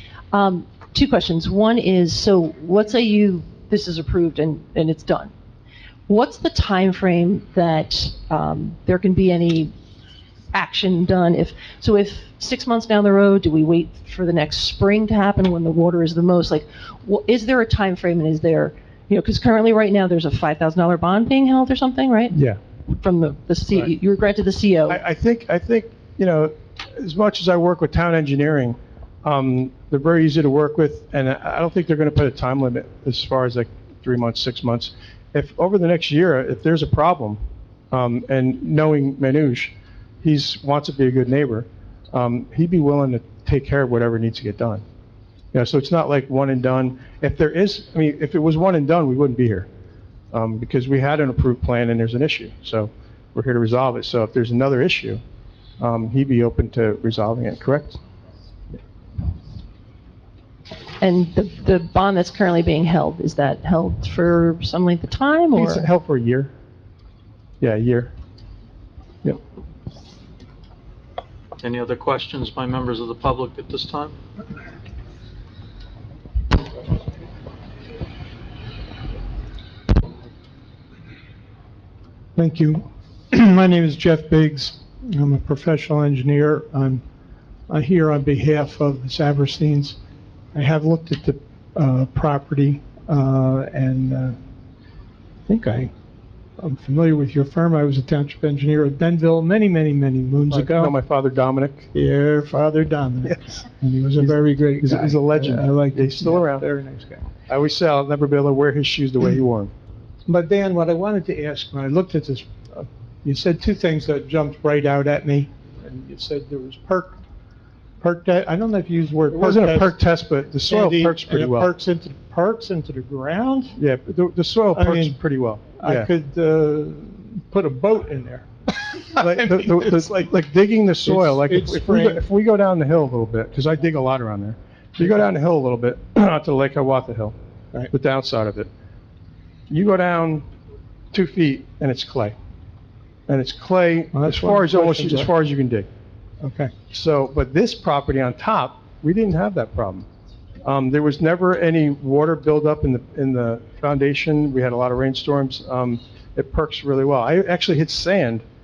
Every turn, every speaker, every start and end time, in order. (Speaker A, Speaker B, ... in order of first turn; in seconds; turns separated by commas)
Speaker A: 0.3-5.3, Speaker A: 6.1-9.7, Speaker A: 10.5-25.0, Speaker B: 22.3-22.6, Speaker B: 24.9-44.8, Speaker B: 45.5-49.7, Speaker B: 50.3-55.2, Speaker B: 55.8-58.0, Speaker A: 61.0-65.8, Speaker B: 65.6-66.5, Speaker B: 67.6-68.1, Speaker C: 71.6-74.1, Speaker D: 82.4-87.0, Speaker D: 87.7-90.0, Speaker D: 90.5-94.4, Speaker D: 95.5-95.9, Speaker D: 96.6-100.9, Speaker B: 100.5-101.9, Speaker D: 101.9-107.3, Speaker B: 104.2-106.7, Speaker B: 107.5-109.7, Speaker D: 110.3-117.2, Speaker D: 118.0-119.9, Speaker B: 119.3-121.7, Speaker D: 120.7-123.8, Speaker B: 123.8-126.1, Speaker D: 124.7-125.2, Speaker D: 125.8-130.1, Speaker B: 129.2-137.3, Speaker D: 131.1-132.2, Speaker B: 137.9-138.7, Speaker B: 139.7-140.5, Speaker B: 141.1-142.3, Speaker B: 143.3-145.9, Speaker D: 144.1-145.3, Speaker D: 146.4-146.7, Speaker B: 146.9-150.1, Speaker B: 150.6-158.4